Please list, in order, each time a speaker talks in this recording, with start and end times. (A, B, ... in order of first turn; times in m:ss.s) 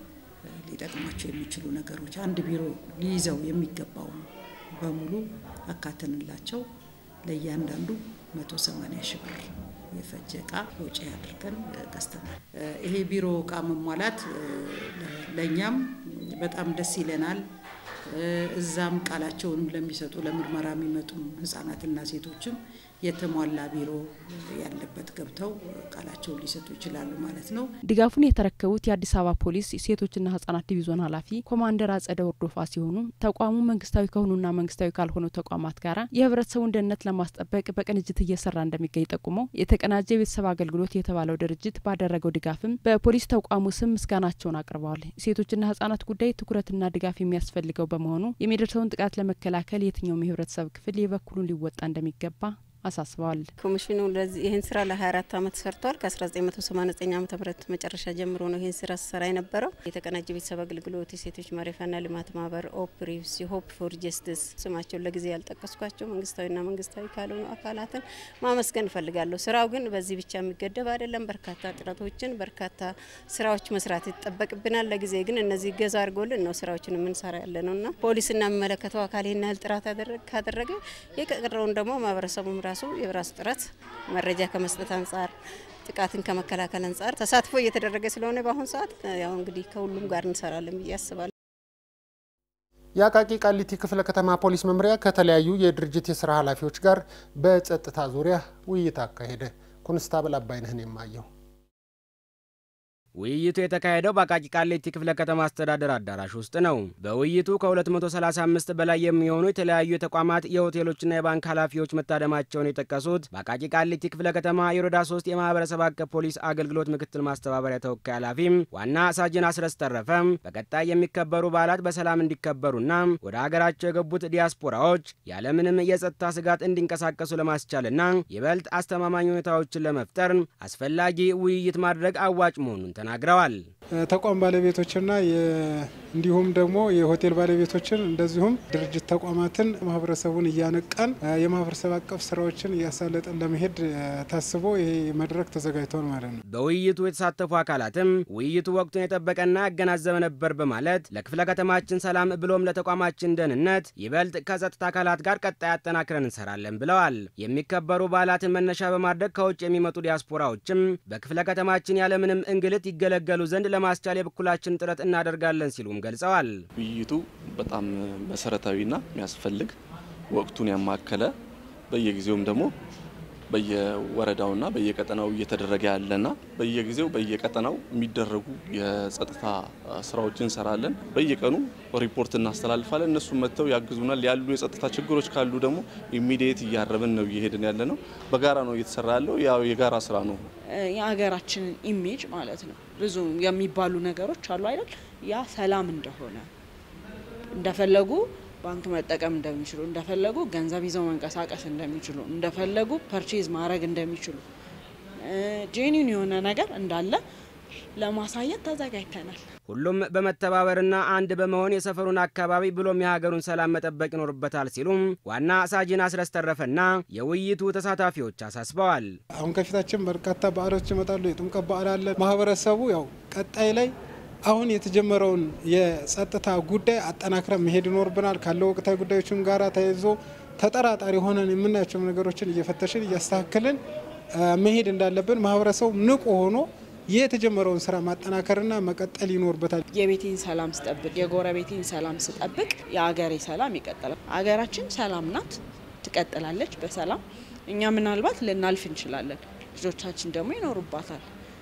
0:00.5-0:06.6 A
0:07.2-0:17.4 A
0:18.1-0:27.7 A
0:27.9-0:53.5 B
0:53.6-1:25.3 C
1:25.9-1:31.3 C
1:33.0-1:41.3 D
1:43.2-2:13.6 E
2:14.0-2:26.4 F
2:26.5-2:46.5 E
2:46.8-2:49.7 G
2:50.3-2:51.3 G
2:51.9-2:52.7 G
2:53.5-3:10.4 G
3:10.7-3:16.5 H
3:17.6-3:24.4 H
3:25.2-3:27.2 H
3:28.0-3:29.4 H
3:29.7-3:39.1 E
3:39.4-3:43.9 F
3:44.5-3:53.8 F
3:54.4-3:59.8 F
3:59.9-4:11.3 H